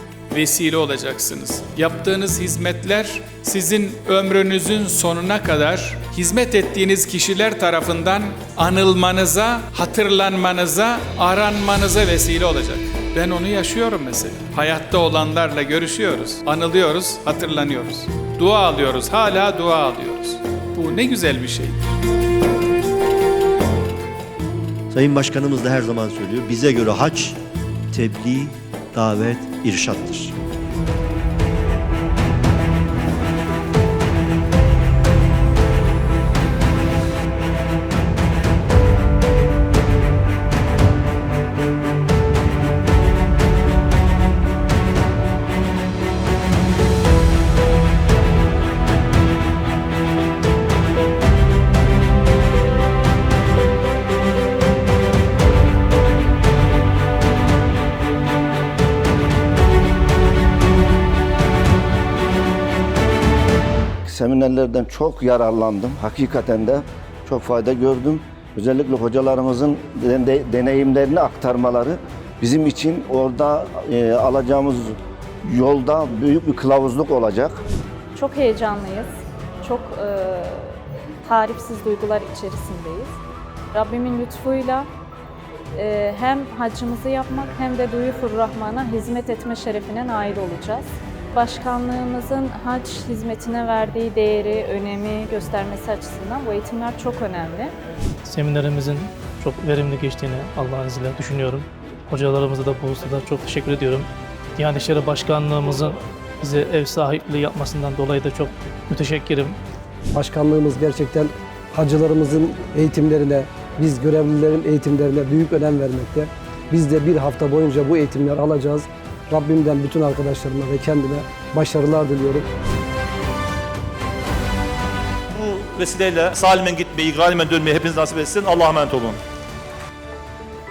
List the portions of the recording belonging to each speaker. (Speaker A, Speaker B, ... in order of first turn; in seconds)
Speaker A: 0.3-21.9
Speaker B: 24.9-27.4, 27.9-30.3
Speaker C: 64.0-77.6
Speaker D: 78.1-83.2, 83.7-84.9, 85.7-97.7
Speaker E: 98.2-109.6
Speaker F: 110.2-122.4
Speaker G: 125.3-129.2